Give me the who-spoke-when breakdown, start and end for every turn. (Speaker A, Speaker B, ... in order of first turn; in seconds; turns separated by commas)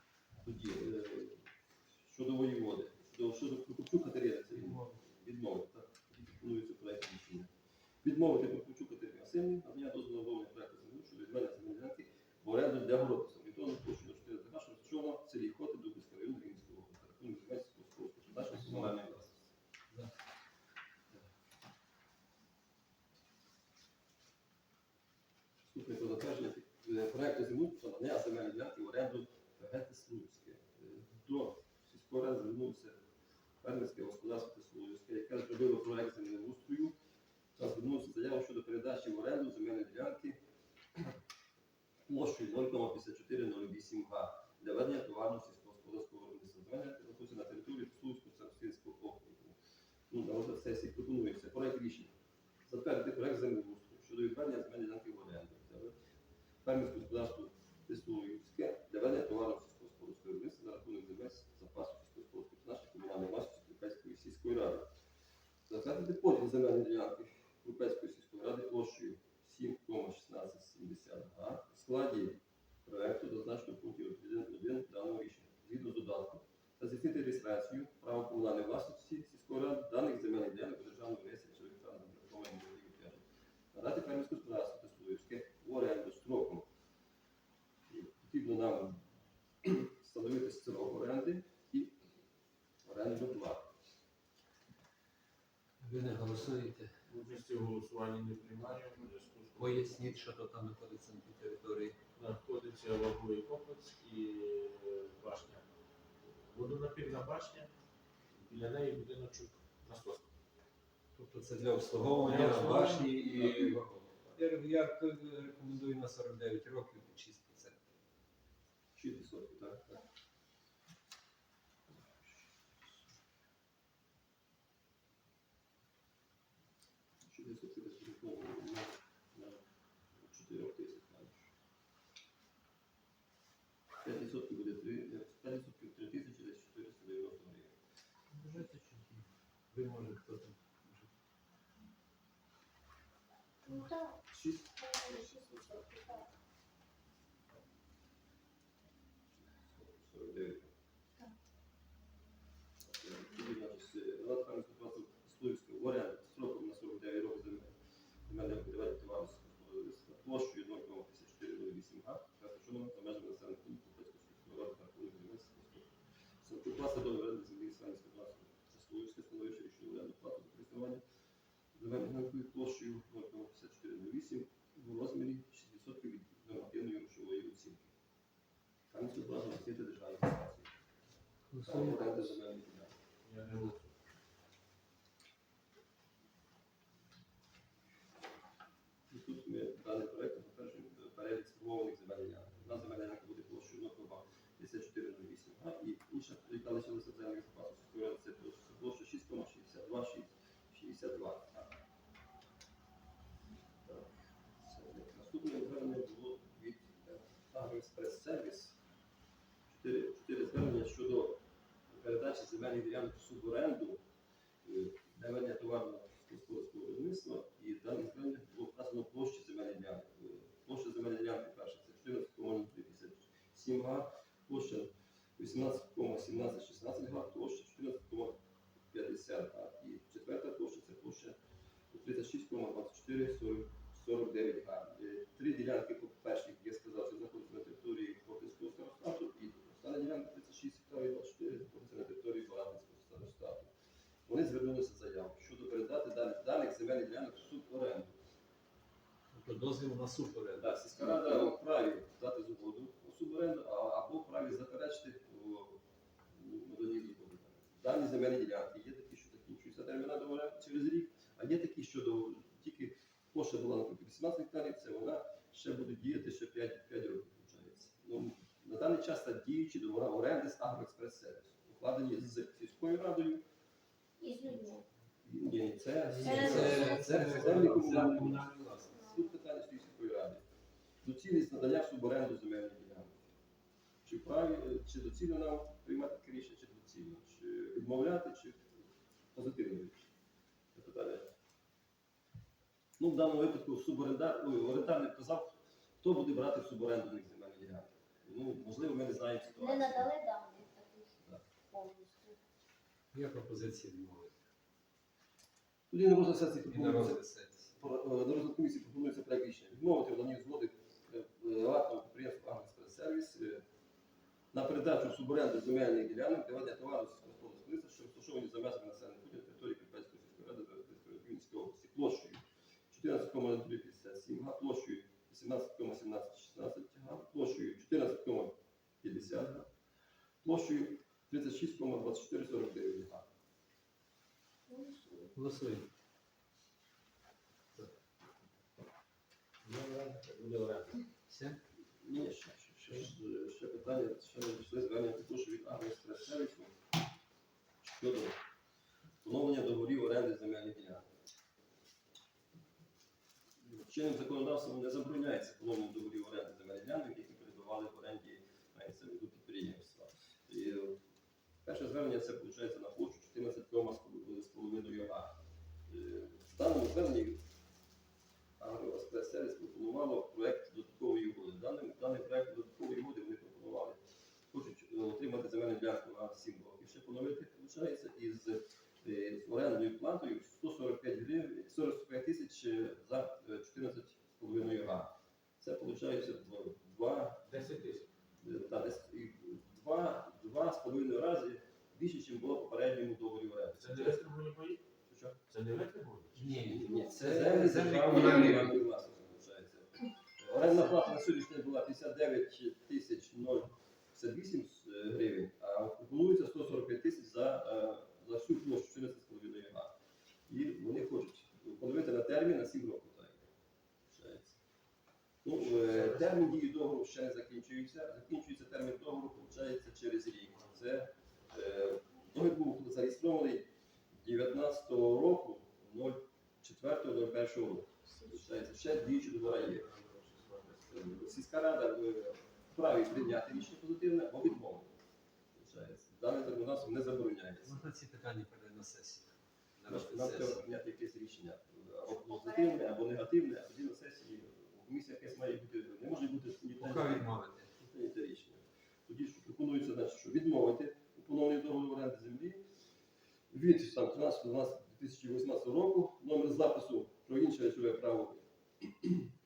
Speaker A: 0.4-1.4, Speaker A: 2.0-7.5, Speaker B: 4.6-5.0, Speaker A: 8.0-19.4, Speaker B: 18.5-19.0, Speaker A: 25.6-33.0, Speaker A: 33.6-37.0, Speaker A: 37.5-40.4, Speaker A: 42.1-49.6, Speaker A: 50.1-52.1, Speaker A: 52.7-55.9, Speaker A: 56.6-64.9, Speaker A: 65.7-86.7, Speaker A: 87.9-89.0, Speaker A: 89.6-92.0, Speaker A: 92.8-93.7, Speaker B: 95.8-96.9, Speaker C: 97.1-100.2, Speaker B: 99.6-102.0, Speaker C: 102.2-105.7, Speaker C: 106.5-107.7, Speaker C: 108.3-110.3, Speaker B: 111.2-117.8, Speaker C: 112.2-113.8, Speaker A: 119.0-120.0, Speaker A: 127.3-129.6, Speaker A: 130.2-131.5, Speaker A: 134.0-137.8, Speaker B: 138.3-141.1, Speaker D: 143.7-144.2, Speaker A: 144.3-144.7, Speaker D: 144.8-146.3, Speaker A: 149.5-150.7, Speaker A: 152.8-157.8, Speaker A: 158.3-165.9, Speaker A: 166.4-171.0, Speaker A: 171.8-177.9, Speaker A: 178.9-180.7, Speaker B: 181.5-182.3, Speaker A: 181.6-182.9, Speaker C: 183.2-183.9, Speaker A: 189.1-201.7, Speaker A: 203.8-208.8, Speaker A: 209.7-214.0, Speaker A: 214.7-228.4, Speaker A: 228.9-231.4, Speaker A: 231.9-243.7, Speaker A: 244.3-248.1, Speaker B: 249.3-250.7, Speaker A: 250.6-255.8, Speaker A: 256.3-273.4, Speaker D: 274.2-274.8, Speaker A: 275.2-280.4, Speaker B: 276.1-279.0, Speaker D: 276.2-277.1, Speaker D: 278.9-279.3, Speaker A: 281.0-283.2, Speaker A: 284.0-288.7, Speaker A: 289.3-290.0, Speaker A: 290.7-291.3, Speaker A: 293.0-300.1, Speaker D: 299.6-301.1, Speaker D: 301.7-302.4, Speaker B: 303.1-304.3, Speaker A: 305.9-307.2, Speaker B: 306.7-307.7, Speaker A: 307.8-313.6, Speaker A: 314.5-329.7, Speaker A: 330.4-333.2, Speaker D: 334.7-335.4, Speaker B: 335.4-335.9, Speaker C: 339.6-341.0, Speaker B: 341.3-341.6, Speaker A: 342.0-346.7, Speaker A: 347.8-348.4, Speaker A: 349.2-351.1, Speaker A: 353.6-361.0, Speaker A: 361.6-365.4, Speaker A: 365.9-367.4, Speaker A: 368.6-374.0, Speaker A: 374.5-387.5, Speaker C: 387.4-388.1, Speaker A: 388.4-394.2, Speaker C: 393.8-394.8, Speaker A: 395.1-395.4, Speaker C: 395.5-396.6, Speaker B: 396.3-398.8, Speaker A: 396.7-409.9, Speaker B: 400.7-400.9, Speaker A: 410.5-413.4, Speaker A: 414.1-414.6, Speaker A: 415.4-423.7, Speaker C: 415.9-416.3, Speaker A: 424.2-429.9, Speaker D: 428.1-428.6, Speaker B: 429.7-430.6, Speaker C: 430.2-430.8, Speaker A: 430.9-434.9, Speaker A: 435.6-437.8, Speaker B: 437.6-440.7, Speaker A: 439.9-452.6, Speaker D: 442.1-442.9, Speaker B: 446.8-447.7, Speaker A: 453.5-459.3